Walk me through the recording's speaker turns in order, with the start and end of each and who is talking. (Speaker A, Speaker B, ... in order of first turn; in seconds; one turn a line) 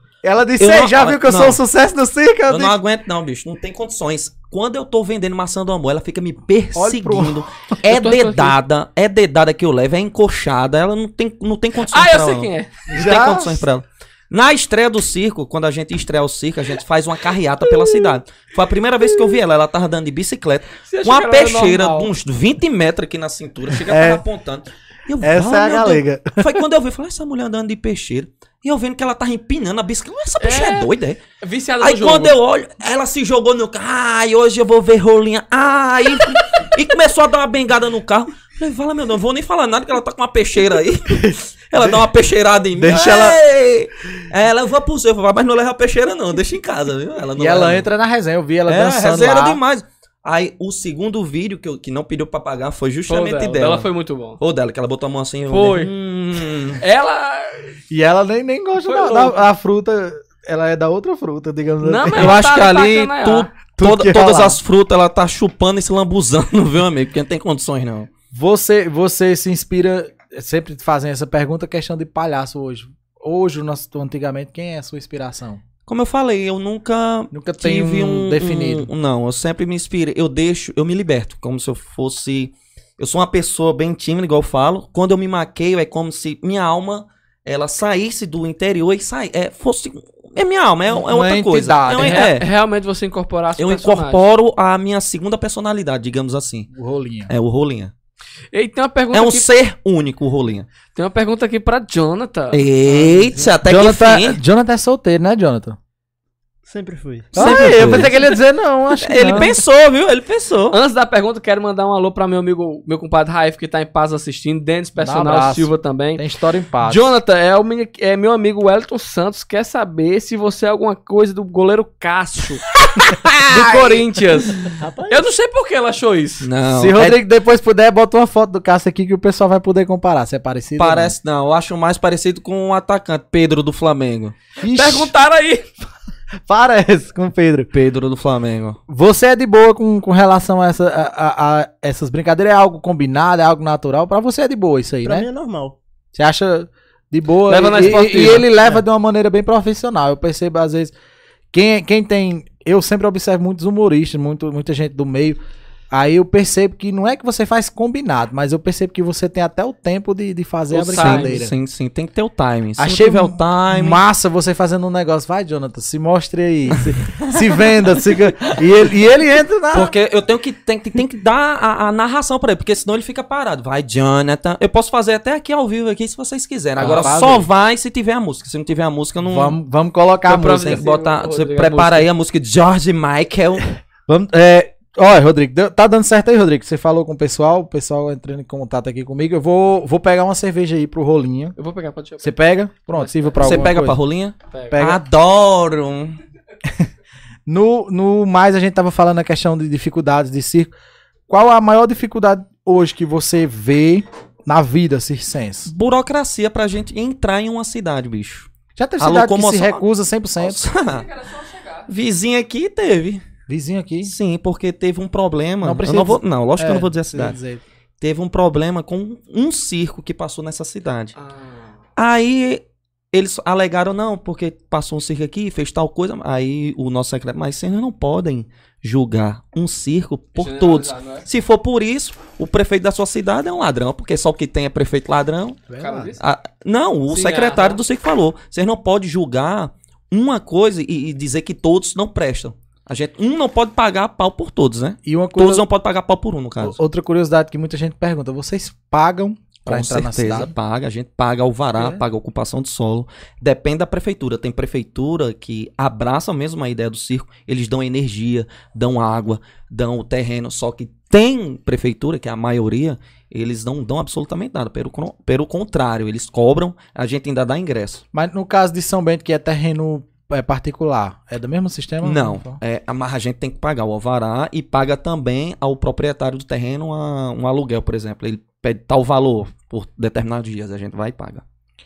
Speaker A: 0.2-2.7
Speaker B: 0.6-1.6
Speaker B: 2.5-31.2
Speaker A: 6.7-7.4
Speaker C: 7.9-8.6
Speaker C: 11.8-12.8
Speaker A: 12.9-13.7
Speaker C: 20.8-22.1
Speaker A: 23.7-24.2
Speaker A: 25.2-26.5
Speaker C: 30.4-30.9
Speaker C: 31.4-32.3
Speaker B: 31.8-47.9
Speaker A: 41.1-42.0
Speaker A: 42.7-43.4
Speaker A: 47.4-49.6
Speaker B: 48.7-53.9
Speaker C: 53.1-54.4
Speaker B: 54.4-56.8
Speaker C: 55.5-55.9
Speaker C: 56.8-57.7
Speaker A: 57.9-62.4
Speaker C: 58.9-59.4
Speaker C: 61.8-63.5
Speaker B: 62.1-68.1
Speaker A: 63.7-64.6
Speaker A: 68.3-75.6
Speaker B: 75.9-92.5
Speaker A: 77.3-78.9
Speaker A: 91.0-92.3
Speaker C: 92.0-94.2
Speaker B: 93.6-96.7
Speaker A: 96.7-97.3
Speaker B: 97.3-97.9
Speaker C: 98.5-99.5
Speaker B: 99.1-100.7
Speaker C: 100.9-102.6
Speaker B: 102.5-104.4
Speaker A: 103.0-105.8
Speaker D: 106.7-108.1
Speaker B: 107.3-108.2
Speaker A: 107.3-109.6
Speaker B: 109.0-110.8
Speaker C: 110.7-116.2
Speaker A: 115.0-117.1
Speaker C: 116.8-126.5
Speaker D: 124.8-125.3
Speaker B: 126.4-127.2
Speaker A: 126.7-131.1
Speaker B: 130.8-134.3
Speaker A: 134.6-135.1
Speaker C: 134.7-135.7
Speaker A: 136.4-137.7
Speaker B: 137.7-138.8
Speaker A: 138.9-145.3
Speaker D: 145.0-145.8
Speaker A: 146.1-150.9
Speaker C: 147.5-148.5
Speaker A: 151.5-155.4
Speaker A: 155.9-161.5
Speaker B: 160.7-164.0
Speaker C: 160.8-161.4
Speaker A: 162.8-169.9
Speaker B: 167.1-167.5
Speaker B: 169.7-179.6
Speaker A: 176.8-177.5
Speaker C: 176.8-177.0
Speaker A: 179.2-180.8
Speaker C: 180.3-182.1
Speaker B: 180.4-183.6
Speaker A: 184.1-191.6
Speaker C: 191.6-192.3
Speaker A: 192.2-194.0
Speaker C: 192.9-193.7
Speaker B: 193.4-196.2
Speaker C: 194.5-194.8
Speaker A: 194.7-195.0
Speaker A: 197.5-200.7
Speaker A: 201.3-205.7
Speaker B: 205.7-209.8
Speaker A: 208.8-210.7
Speaker B: 210.4-211.1
Speaker C: 210.7-211.9
Speaker B: 211.9-213.2
Speaker A: 213.5-214.1
Speaker B: 214.0-217.4
Speaker A: 215.6-217.6
Speaker B: 218.0-221.1
Speaker C: 221.2-221.8
Speaker B: 221.9-235.6
Speaker C: 230.3-231.2
Speaker A: 235.7-236.1
Speaker C: 235.8-236.2
Speaker B: 236.2-246.8
Speaker C: 237.1-237.8
Speaker A: 245.0-245.6
Speaker A: 246.6-250.5
Speaker B: 249.7-268.0
Speaker A: 251.8-252.0
Speaker A: 268.1-272.6
Speaker B: 272.0-281.4